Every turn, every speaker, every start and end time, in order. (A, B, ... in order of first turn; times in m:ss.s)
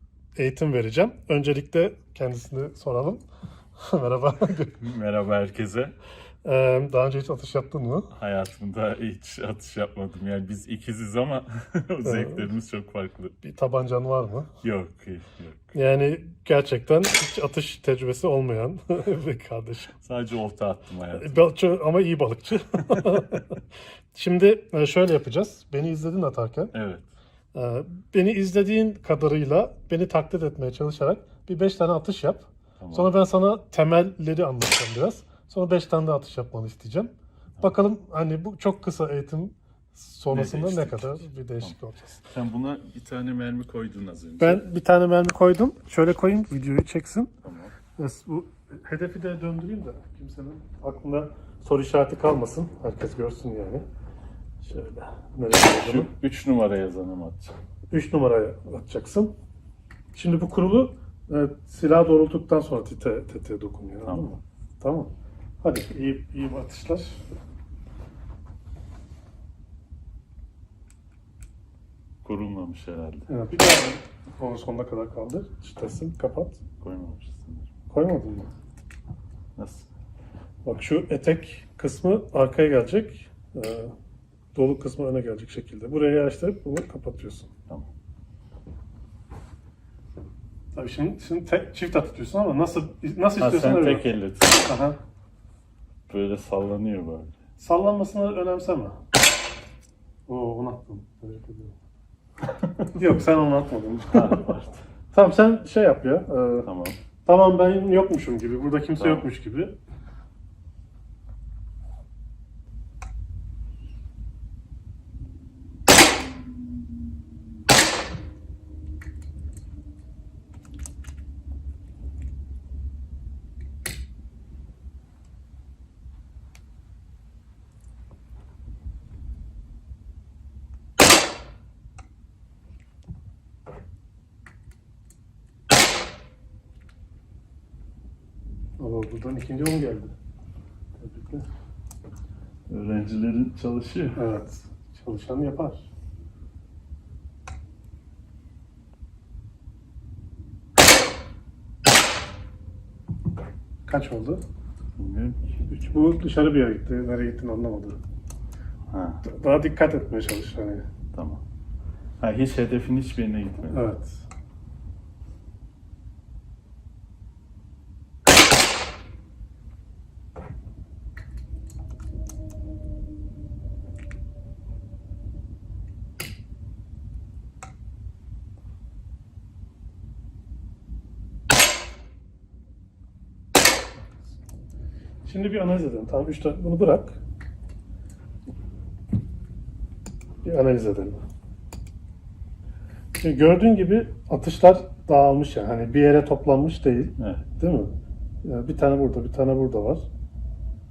0:00.4-0:03.2 A
0:03.8-0:04.8 A
0:04.8-0:05.9 B
0:06.4-0:08.1 A
0:08.1-0:13.3 B
0:12.0-0:12.5 A
0:13.4-0:14.5 A
0:14.6-0:15.7 B
0:15.7-0:19.9 A
0:20.0-0:21.5 B
0:21.1-0:23.6 A
0:24.1-0:26.7 A
0:26.7-0:27.0 B
0:27.5-0:42.2 A
0:32.8-0:33.1 B
0:40.3-0:41.7 B
0:42.2-0:44.6 B
0:44.4-0:47.3 A
0:47.4-0:47.7 B
0:48.0-0:53.8 A
0:54.6-0:56.1 A
0:55.8-0:57.5 B
0:57.9-0:59.3 A
1:00.1-1:05.1 A
1:04.0-1:04.3 B
1:05.6-1:07.2 A
1:12.2-1:13.3 B
1:13.3-1:16.6 A
1:16.8-1:17.7 B
1:17.9-1:18.5 A
1:19.6-1:19.9 B
1:20.6-1:23.9 A
1:24.5-1:27.5 A
1:30.7-1:34.1 A
1:33.4-1:34.7 B
1:34.6-1:35.0 A
1:36.1-1:37.3 B
1:37.6-1:39.0 A
1:40.3-1:41.7 A
1:42.9-1:44.5 A
1:44.1-1:44.8 B
1:45.1-1:46.7 A
1:46.6-1:47.0 B
1:47.2-1:49.8 A
1:49.0-1:49.3 B
2:18.8-2:20.1 A
2:21.0-2:21.4 A
2:22.7-2:24.2 B
2:24.1-2:25.8 A
2:33.8-2:34.4 A
2:35.0-2:35.4 B
2:35.7-2:38.0 A
2:38.9-2:39.2 B
2:39.2-2:40.8 A
2:41.1-2:41.4 B
2:42.2-2:43.8 B
2:43.7-2:44.2 A
3:05.2-3:07.2 A
3:10.4-3:11.2 A
3:13.1-3:17.9 A
3:17.2-3:17.4 B
3:18.4-3:20.0 A